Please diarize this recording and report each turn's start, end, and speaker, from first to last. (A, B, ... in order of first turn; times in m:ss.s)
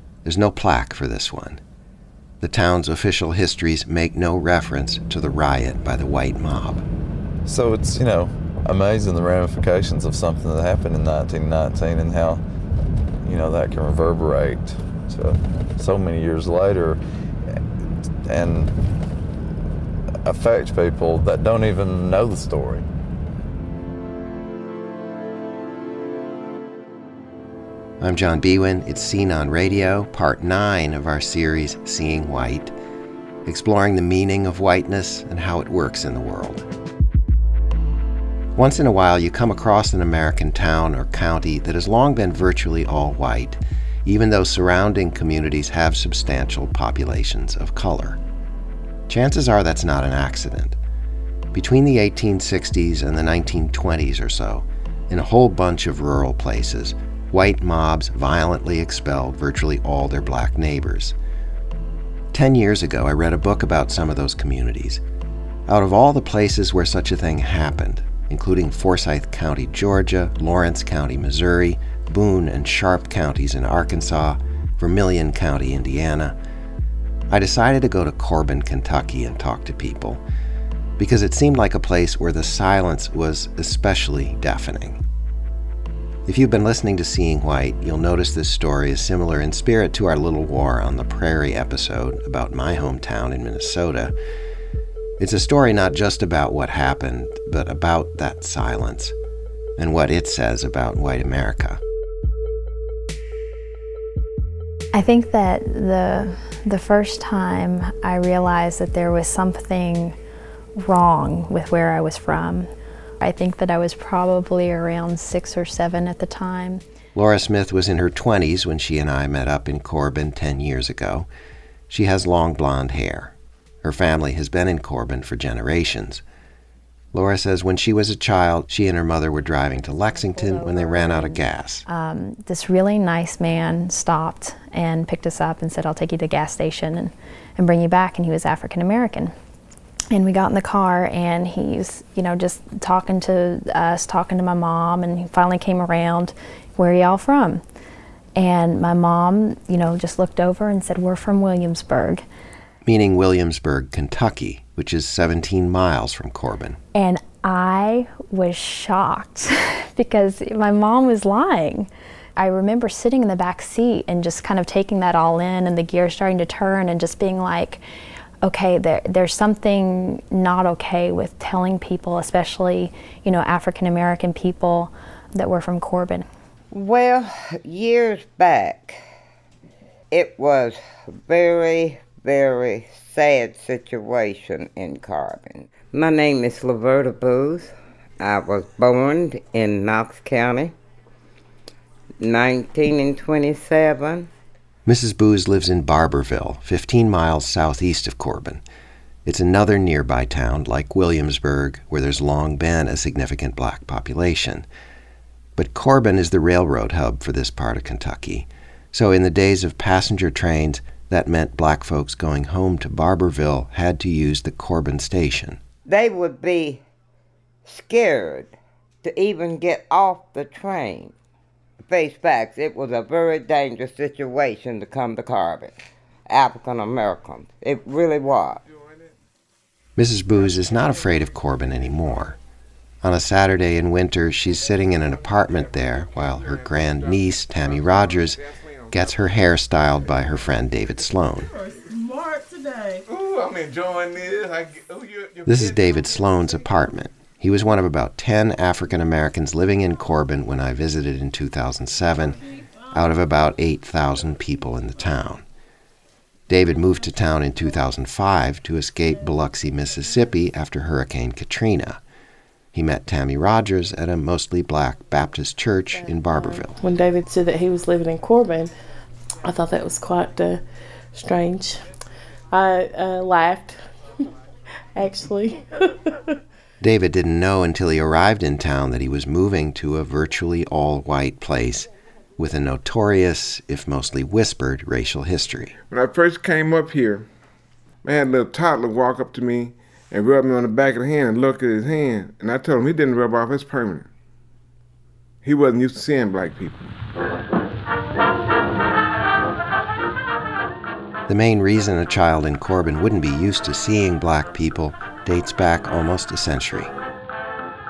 0:00.2-0:01.6 A
0:02.4-0:06.8 A
0:07.4-0:12.4 B
0:13.2-0:17.6 B
0:18.3-0:18.8 B
0:20.2-0:22.9 B
0:28.0-0:32.7 A
0:33.4-0:36.6 A
0:38.6-0:48.2 A
0:49.1-0:50.8 A
0:51.5-1:01.1 A
1:02.3-1:05.0 A
1:05.7-1:16.4 A
1:17.3-1:20.2 A
1:21.0-1:25.0 A
1:26.3-1:34.1 A
1:35.2-1:39.1 A
1:39.8-1:41.8 A
1:44.9-1:50.2 C
1:50.8-1:52.7 C
1:53.2-1:56.8 C
1:57.1-2:01.3 A
2:01.9-2:06.2 A
2:07.1-2:11.8 A
2:09.9-2:19.3 C
2:20.1-2:27.6 C
2:28.4-2:32.2 C
2:32.8-2:36.8 A
2:36.9-2:47.8 C
2:48.4-2:56.3 C
2:56.7-2:59.0 D
3:00.1-3:10.7 D
3:12.2-3:14.3 D
3:14.8-3:18.6 A
3:19.2-3:24.6 A
3:25.6-3:35.6 A
3:35.8-3:36.8 D
3:37.6-3:38.5 D
3:39.0-3:41.1 D
3:41.8-3:45.8 D
3:46.3-3:48.6 D
3:48.7-3:49.1 E
3:50.0-3:52.4 A
3:53.0-4:01.5 A
3:55.4-3:59.1 E
4:03.1-4:05.9 E
4:05.4-4:12.4 A
4:12.9-4:15.4 A
4:16.5-4:22.0 A
4:22.7-4:26.8 A
4:26.1-4:28.7 F
4:29.4-4:31.9 F
4:32.5-4:33.9 F
4:35.0-4:36.2 F
4:36.8-4:45.8 A
4:45.9-4:47.3 E
4:48.0-4:54.1 E
4:55.4-4:56.9 E
5:01.3-5:06.9 A